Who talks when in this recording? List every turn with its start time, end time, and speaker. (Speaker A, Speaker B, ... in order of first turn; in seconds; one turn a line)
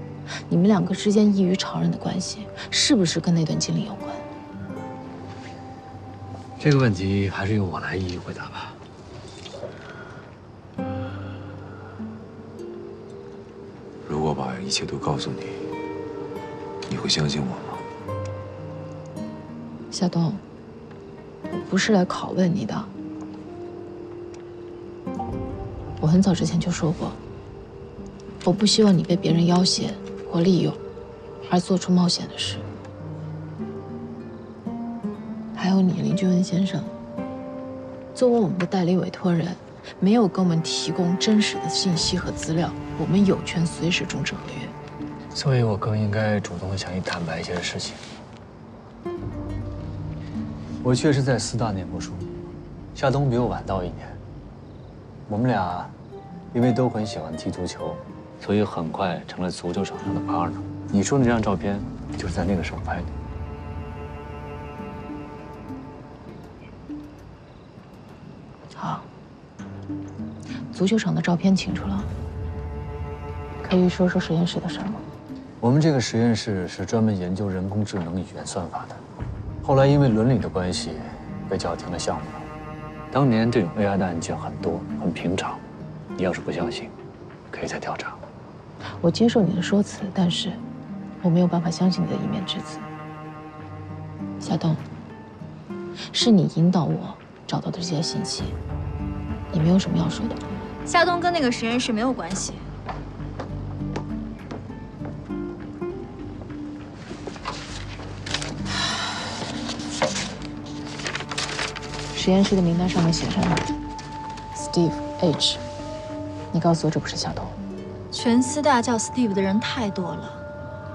Speaker A: 0.5-4.2
Speaker B: 6.6-8.8
Speaker C: 14.1-15.7
Speaker C: 16.9-17.8
Speaker A: 19.9-20.4
Speaker A: 21.5-22.9
Speaker A: 26.0-27.2
Speaker A: 28.4-30.8
Speaker A: 31.4-32.7
Speaker A: 35.5-36.9
Speaker A: 38.1-44.8
Speaker B: 45.3-48.0
Speaker B: 50.8-52.3
Speaker B: 52.9-54.2
Speaker B: 55.3-55.9
Speaker B: 56.5-63.1
Speaker A: 68.8-69.1
Speaker A: 70.7-72.1
Speaker A: 73.6-75.0
Speaker B: 75.6-79.0
Speaker B: 79.6-82.5
Speaker B: 83.1-85.6
Speaker B: 86.2-86.9
Speaker B: 87.5-88.2
Speaker A: 89.0-90.6
Speaker A: 91.2-92.9
Speaker A: 94.4-94.8
Speaker A: 96.1-98.6
Speaker A: 99.5-100.4
Speaker D: 100.9-102.6
Speaker A: 112.1-113.7
Speaker A: 114.5-115.6
Speaker A: 116.5-117.6
Speaker D: 118.1-120.4